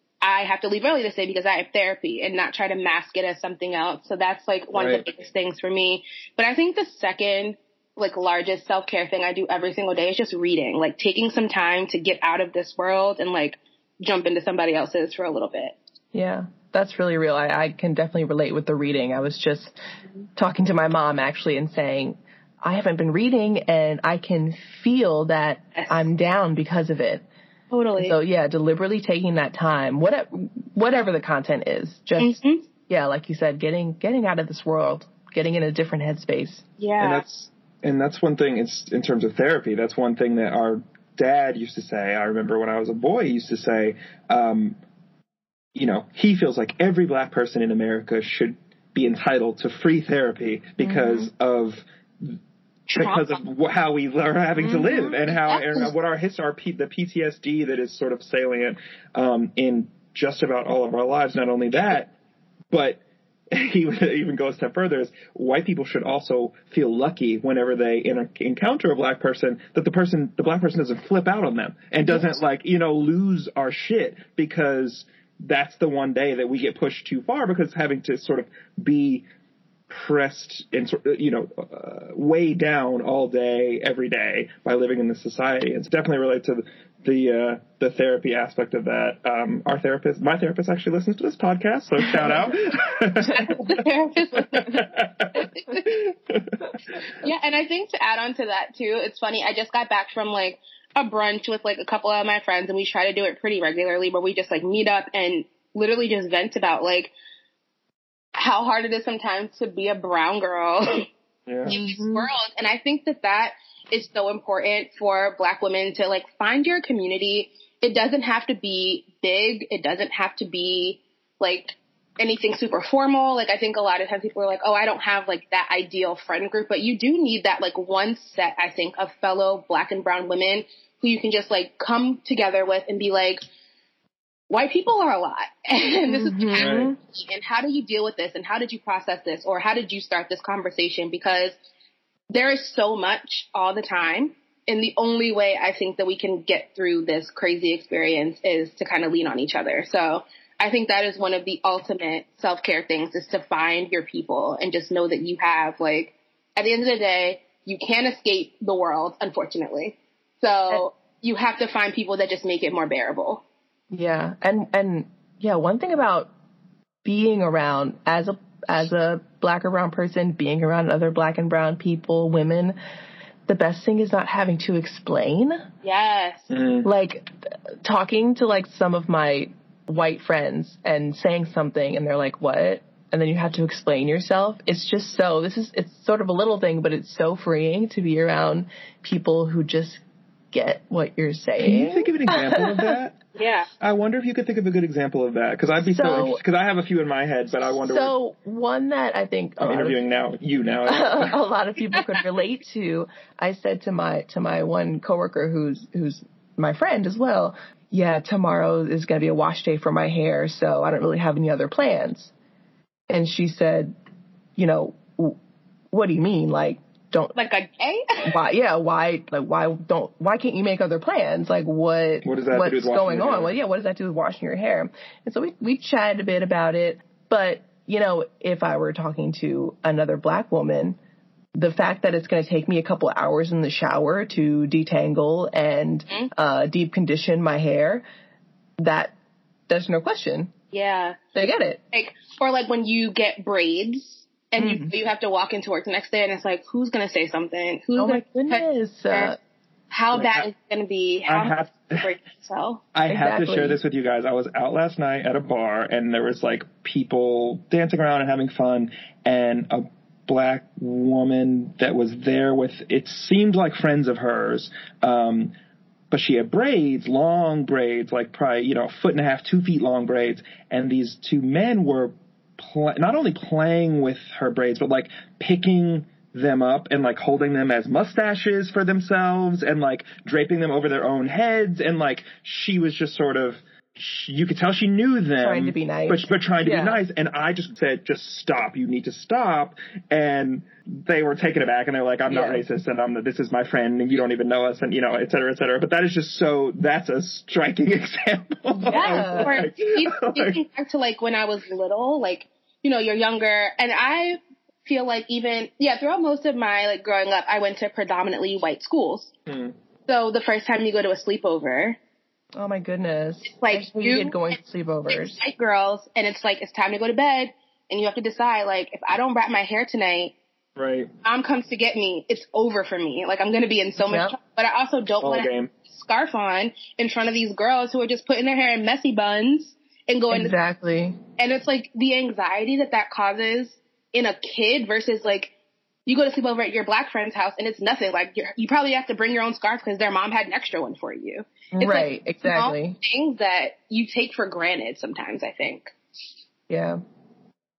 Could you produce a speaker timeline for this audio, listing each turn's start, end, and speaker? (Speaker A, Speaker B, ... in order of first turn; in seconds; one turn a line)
Speaker A: 0.2-15.8
Speaker B: 4.7-5.0
Speaker C: 16.1-19.7
Speaker C: 20.4-27.2
Speaker A: 27.7-28.2
Speaker C: 28.0-36.6
Speaker A: 32.2-32.6
Speaker A: 36.8-37.2
Speaker B: 37.0-44.8
Speaker B: 45.8-52.4
Speaker C: 50.8-51.2
Speaker A: 52.9-53.3
Speaker B: 52.9-62.1
Speaker C: 54.6-55.2
Speaker B: 62.7-79.3
Speaker B: 79.9-93.8
Speaker A: 93.3-95.8
Speaker B: 94.4-97.0
Speaker A: 97.2-107.1
Speaker A: 108.4-111.1
Speaker B: 111.5-111.7
Speaker C: 111.7-112.3
Speaker A: 111.7-133.4
Speaker A: 134.5-141.6
Speaker C: 136.1-137.0
Speaker B: 136.6-136.9
Speaker A: 142.3-163.4
Speaker C: 163.9-166.3
Speaker C: 167.0-172.8
Speaker C: 173.5-175.6
Speaker A: 175.8-176.5
Speaker B: 176.5-176.9
Speaker C: 176.8-192.9
Speaker B: 191.6-193.2
Speaker A: 193.4-193.7
Speaker B: 193.8-198.1
Speaker C: 195.9-196.4
Speaker C: 197.9-200.0
Speaker B: 199.6-201.4
Speaker C: 200.9-212.3
Speaker C: 213.1-213.9
Speaker C: 214.6-215.4
Speaker C: 215.9-217.3
Speaker A: 217.3-218.4
Speaker C: 218.2-231.0
Speaker B: 222.2-223.5
Speaker C: 231.6-238.1
Speaker C: 238.8-239.2
Speaker C: 239.7-240.5
Speaker A: 240.7-241.2
Speaker C: 241.3-241.8
Speaker A: 241.9-249.3
Speaker C: 244.6-244.9
Speaker C: 248.0-249.4
Speaker A: 249.9-252.8
Speaker B: 250.1-250.5
Speaker B: 251.3-252.1
Speaker B: 252.9-265.5
Speaker C: 253.1-253.8
Speaker B: 266.1-300.6
Speaker C: 285.4-287.0
Speaker C: 298.7-299.6
Speaker A: 298.9-309.3
Speaker B: 309.5-309.7
Speaker A: 310.1-312.0
Speaker C: 312.6-315.4
Speaker A: 313.5-314.4
Speaker A: 315.1-320.4
Speaker B: 320.8-321.1
Speaker A: 321.2-330.5
Speaker C: 324.0-324.4
Speaker B: 325.2-325.7
Speaker C: 330.3-331.2
Speaker A: 331.4-335.5
Speaker A: 336.1-345.9
Speaker C: 341.7-343.0
Speaker C: 346.7-347.0